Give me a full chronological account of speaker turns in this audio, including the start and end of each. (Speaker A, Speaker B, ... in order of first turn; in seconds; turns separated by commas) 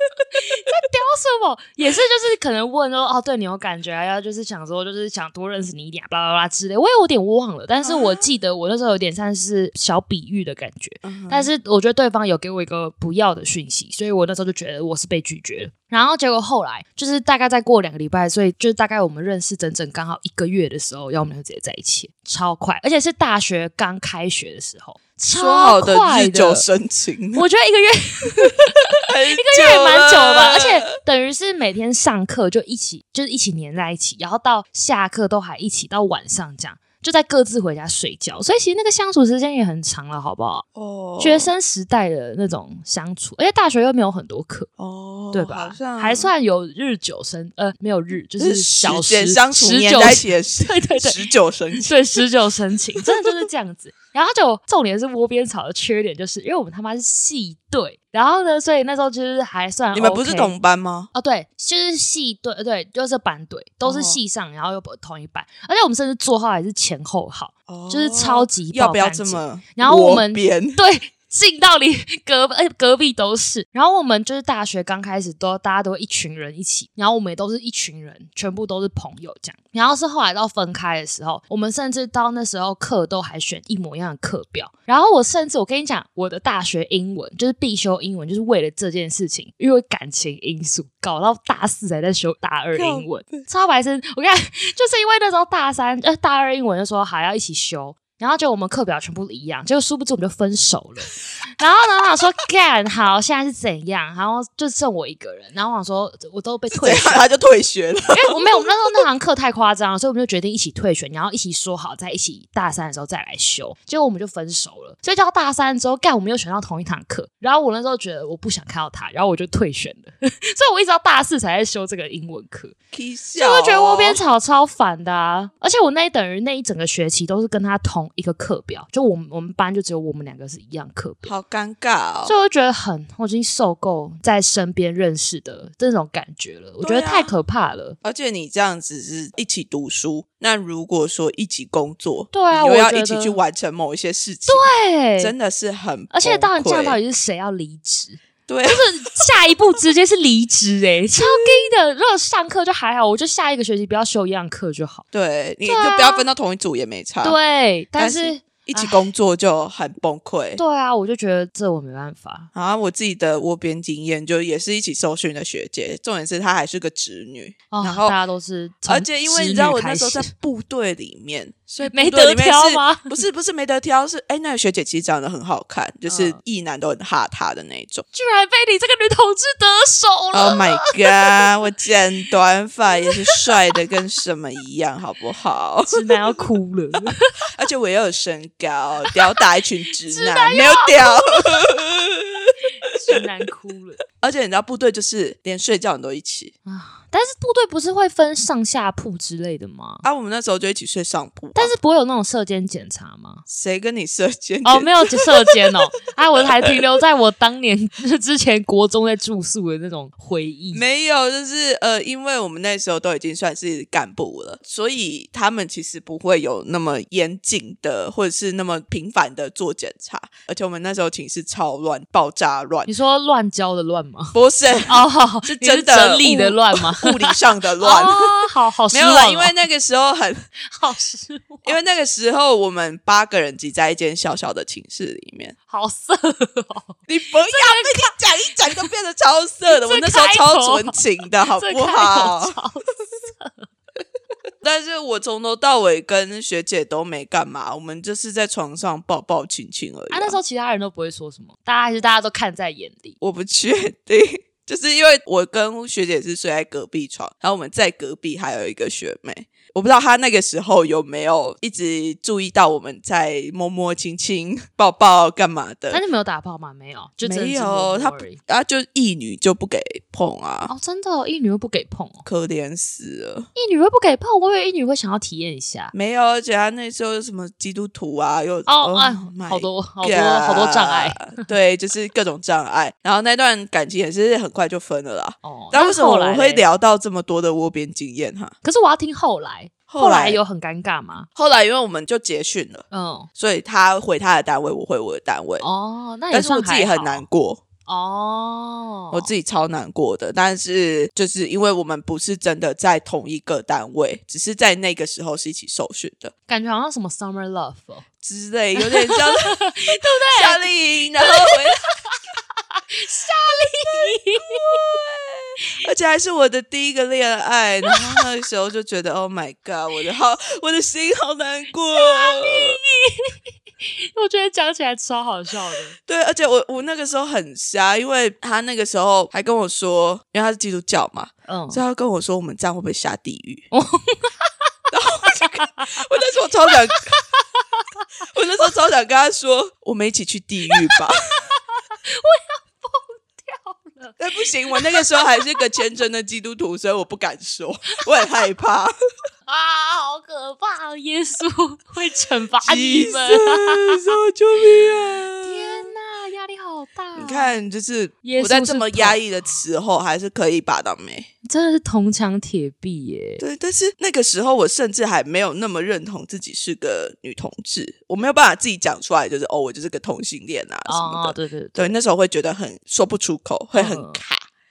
Speaker A: 0.3-26.6, Speaker B: 7.8-8.2, Speaker B: 11.0-11.5, Speaker B: 25.4-27.4, Speaker A: 27.4-40.6, Speaker B: 29.0-30.9, Speaker B: 40.8-41.5, Speaker A: 41.2-44.7, Speaker B: 44.8-46.3, Speaker A: 45.3-51.2, Speaker B: 48.4-52.2, Speaker A: 51.8-60.5, Speaker B: 53.0-53.5, Speaker B: 59.9-61.1, Speaker A: 61.1-107.2, Speaker B: 63.9-64.2, Speaker B: 67.7-70.8, Speaker B: 92.8-93.4, Speaker B: 106.7-108.7, Speaker A: 108.1-122.8, Speaker B: 122.9-124.2, Speaker A: 123.3-131.3, Speaker B: 131.2-132.3, Speaker A: 132.2-138.0, Speaker B: 136.8-137.3, Speaker B: 138.0-144.6, Speaker A: 142.3-143.4, Speaker A: 144.5-145.3, Speaker B: 145.2-147.0, Speaker A: 146.1-155.0, Speaker B: 148.5-149.2, Speaker B: 151.2-151.6, Speaker B: 155.1-157.4, Speaker A: 155.6-156.3, Speaker A: 157.2-159.0, Speaker B: 158.0-160.6, Speaker A: 160.6-162.5, Speaker B: 162.5-168.2, Speaker A: 167.7-170.3, Speaker B: 168.9-178.1, Speaker A: 171.8-173.1, Speaker A: 176.1-176.4, Speaker A: 178.1-181.4, Speaker B: 180.3-186.4, Speaker A: 183.1-183.7, Speaker A: 185.9-187.5, Speaker B: 187.5-193.2, Speaker A: 189.1-189.4, Speaker A: 190.1-191.8, Speaker A: 192.8-194.0, Speaker B: 194.2-196.5, Speaker A: 196.7-200.0, Speaker B: 200.0-201.7, Speaker A: 201.5-203.4, Speaker B: 203.5-205.3, Speaker A: 204.6-210.8, Speaker B: 210.7-222.9, Speaker A: 222.9-229.6, Speaker B: 224.3-228.3, Speaker B: 228.9-230.4, Speaker A: 230.7-231.8, Speaker B: 231.6-235.5, Speaker A: 235.7-238.2, Speaker B: 237.1-242.6, Speaker A: 239.7-243.7, Speaker B: 244.6-250.4, Speaker A: 250.1-253.2, Speaker B: 253.2-266.0, Speaker A: 265.9-268.4, Speaker B: 267.2-270.7, Speaker A: 270.7-272.2, Speaker B: 272.2-273.5, Speaker A: 273.5-275.9, Speaker B: 275.9-288.5, Speaker A: 278.7-281.5, Speaker A: 285.4-286.6, Speaker A: 288.6-291.3, Speaker B: 289.9-290.4, Speaker B: 291.4-292.9, Speaker A: 292.9-293.3, Speaker B: 293.4-295.6, Speaker A: 295.6-297.2, Speaker B: 296.3-297.6, Speaker A: 297.9-299.3, Speaker B: 299.1-306.3, Speaker A: 306.5-308.0, Speaker B: 308.2-311.8, Speaker A: 308.8-310.7, Speaker A: 311.2-312.2, Speaker A: 312.7-314.8, Speaker B: 314.4-322.8, Speaker A: 317.9-318.2, Speaker A: 321.9-325.9, Speaker B: 326.0-333.6, Speaker A: 331.5-331.8, Speaker A: 333.7-334.5, Speaker B: 334.9-337.1, Speaker A: 335.3-336.0, Speaker A: 336.7-337.2, Speaker B: 338.3-341.2, Speaker A: 340.7-341.0, Speaker A: 341.5-344.2, Speaker B: 344.2-348.9, Speaker A: 344.7-345.6, Speaker A: 349.5-354.1, Speaker B: 352.6-355.9, Speaker A: 355.4-357.6, Speaker B: 357.2-361.3, Speaker A: 358.2-359.2, Speaker A: 361.4-363.4, Speaker B: 363.4-374.4, Speaker A: 370.9-371.9, Speaker A: 373.7-374.2